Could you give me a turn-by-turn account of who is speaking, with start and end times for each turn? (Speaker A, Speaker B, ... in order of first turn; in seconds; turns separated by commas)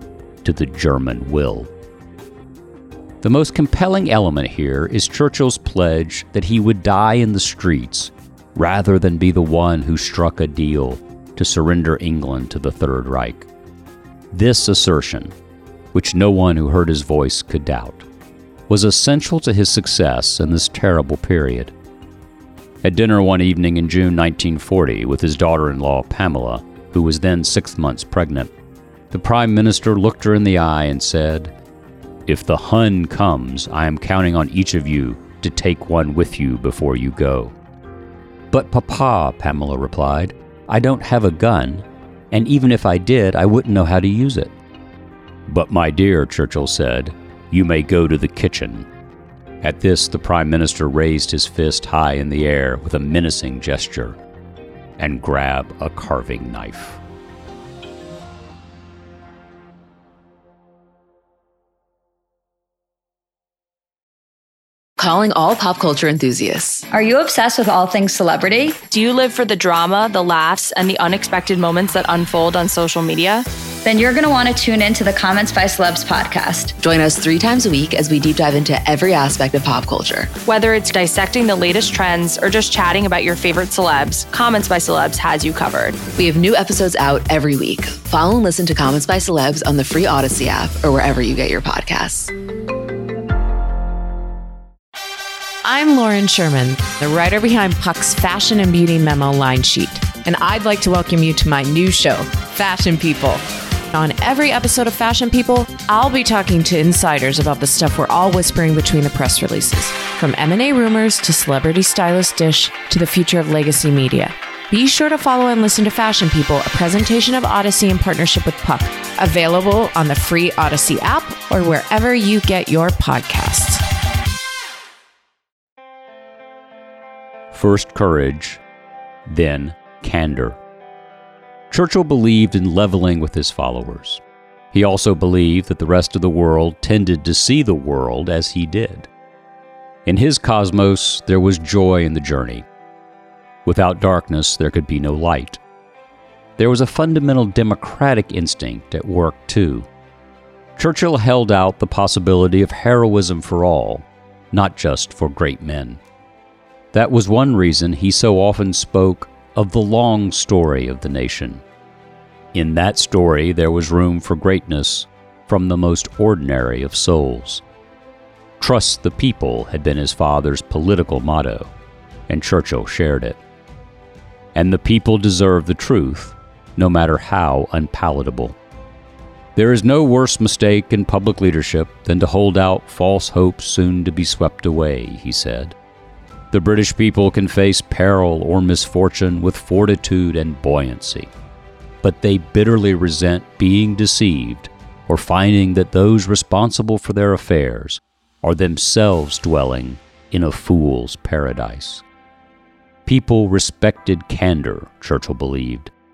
Speaker A: 0.4-1.7, Speaker A: 3.2-13.5, Speaker A: 14.3-15.3, Speaker A: 15.9-18.1, Speaker A: 18.7-21.7, Speaker A: 22.8-28.5, Speaker A: 29.1-31.5, Speaker A: 32.3-37.5, Speaker A: 38.5-44.5, Speaker A: 45.5-48.9, Speaker A: 49.6-54.2, Speaker A: 55.0-57.0, Speaker B: 65.0-66.8, Speaker C: 66.9-68.8, Speaker D: 68.8-73.5, Speaker C: 73.8-76.7, Speaker B: 76.8-80.3, Speaker D: 80.5-86.1, Speaker B: 86.1-92.3, Speaker E: 95.6-123.8, Speaker A: 127.5-128.6, Speaker A: 129.3-130.6, Speaker A: 131.7-134.2, Speaker A: 134.7-139.1, Speaker A: 140.1-142.7, Speaker A: 143.7-145.6, Speaker A: 146.6-149.9, Speaker A: 150.8-156.0, Speaker A: 156.9-161.6, Speaker A: 162.5-167.6, Speaker A: 168.6-171.7, Speaker A: 172.3-173.4, Speaker A: 174.6-178.6, Speaker A: 179.6-185.8, Speaker A: 186.5-191.3, Speaker A: 192.0-202.0, Speaker A: 203.1-205.9